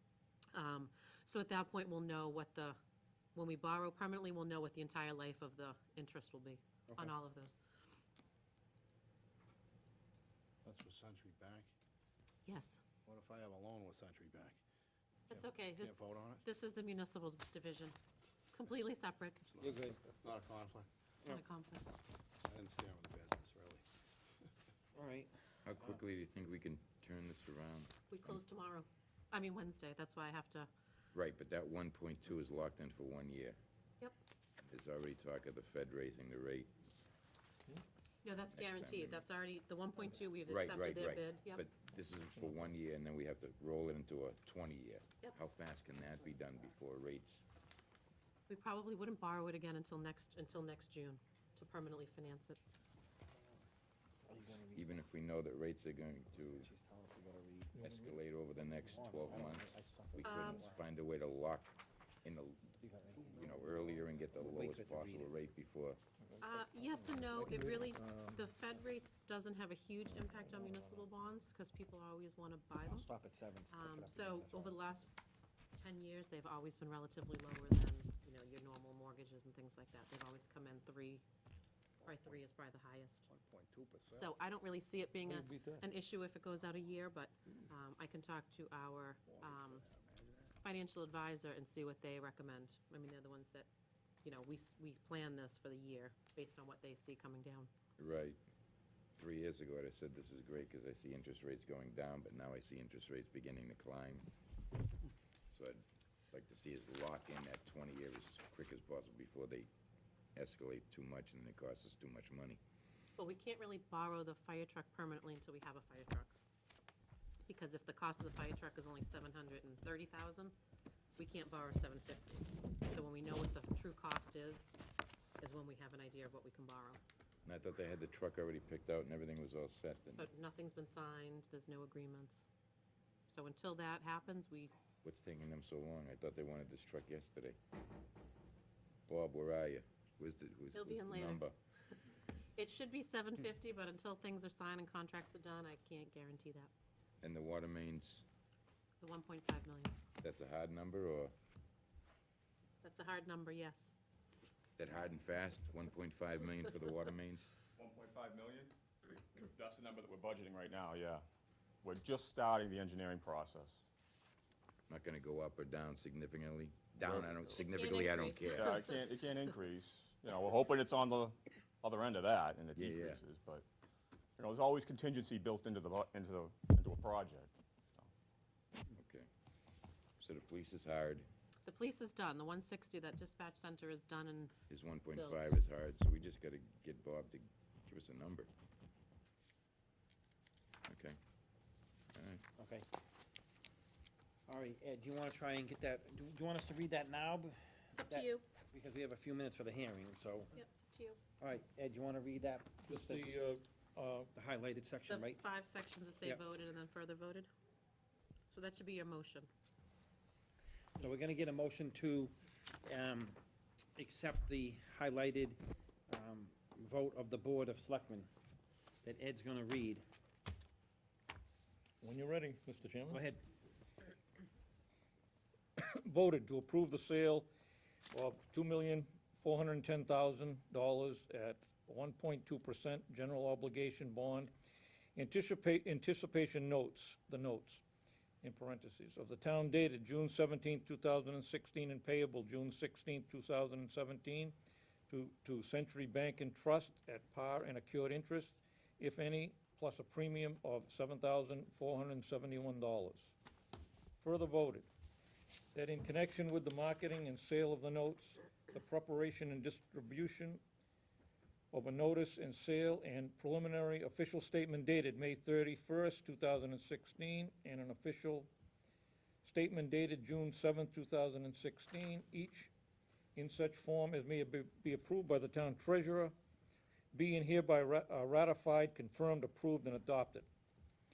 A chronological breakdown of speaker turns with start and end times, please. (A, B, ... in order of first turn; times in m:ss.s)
0:00.5-0:02.8 A
0:03.4-0:07.6 A
0:06.9-0:07.2 B
0:10.6-0:11.7 C
0:12.5-0:12.8 A
0:13.1-0:14.6 C
0:15.3-0:16.4 C
0:15.3-0:18.0 A
0:18.5-0:19.5 A
0:19.4-0:20.9 C
0:19.6-0:20.1 B
0:21.2-0:21.9 A
0:22.5-0:23.8 C
0:25.0-0:25.3 B
0:25.6-0:28.4 D
0:28.1-0:30.7 A
0:31.1-0:33.6 D
0:34.6-0:36.7 D
0:38.2-0:41.6 A
0:38.5-0:39.2 D
0:40.5-0:47.5 D
0:48.5-0:52.6 A
0:54.3-0:55.0 B
0:54.7-0:56.7 D
0:56.4-0:57.8 B
0:57.8-0:58.1 E
0:57.8-1:02.8 D
0:58.8-1:00.8 B
1:00.2-1:00.7 A
1:02.8-1:03.4 B
1:03.2-1:04.4 C
1:03.3-1:06.0 D
1:04.4-1:05.4 B
1:06.4-1:07.5 B
1:06.4-1:13.1 A
1:07.3-1:08.4 E
1:12.8-1:14.8 B
1:13.7-1:15.1 A
1:15.8-1:21.2 A
1:22.0-1:22.4 C
1:22.0-1:23.3 A
1:23.3-1:24.3 C
1:24.1-1:29.8 A
1:25.3-1:25.8 E
1:29.3-1:30.6 C
1:30.6-1:33.7 A
1:34.2-1:37.7 A
1:38.0-1:38.4 D
1:39.2-1:44.3 D
1:45.5-1:45.8 D
1:46.3-1:49.7 D
1:50.4-1:52.6 D
1:53.2-1:56.4 A
1:57.5-2:00.6 A
2:01.2-2:04.8 A
2:05.4-2:07.0 A
2:07.5-2:10.3 D
2:10.2-2:12.5 A
2:13.3-2:14.7 A
2:15.0-2:17.6 D
2:19.1-2:21.5 D
2:20.8-2:21.4 A
2:22.6-2:26.7 A
2:27.2-2:28.2 D
2:29.0-2:30.0 A
2:30.2-2:31.3 D
2:32.8-2:34.0 A
2:34.8-2:37.5 D
2:37.8-2:38.7 F
2:39.4-2:41.2 F
2:41.8-2:43.9 F
2:44.9-2:48.8 D
2:47.0-2:47.5 F
2:47.5-2:49.0 A
2:48.4-2:53.6 F
2:52.8-2:53.2 D
2:54.4-2:58.1 F
2:58.9-2:59.3 D
3:00.2-3:01.3 D
3:01.6-3:04.5 A
3:04.7-3:08.5 D
3:05.2-3:05.4 A
3:10.9-3:11.2 D
3:12.1-3:12.4 D
3:12.6-3:12.9 B
3:14.5-3:20.6 B
3:18.0-3:18.4 A
3:20.5-3:21.2 A
3:21.4-3:23.4 B
3:22.9-3:24.3 E
3:24.4-3:25.4 B
3:25.1-3:27.5 A
3:28.5-3:29.5 A
3:31.0-3:33.4 B
3:31.0-3:31.3 A
3:34.0-3:38.3 B
3:39.0-3:40.0 B
3:42.0-3:43.2 E
3:43.1-3:43.4 B
3:45.8-3:47.5 E
3:48.1-3:54.5 E
3:55.2-3:57.8 E
3:58.4-4:04.6 E
4:05.1-4:13.3 E
4:14.2-4:14.9 E
4:15.8-4:20.6 E
4:21.7-4:28.5 E
4:29.4-4:32.7 E
4:33.4-4:36.3 E
4:37.1-4:40.5 E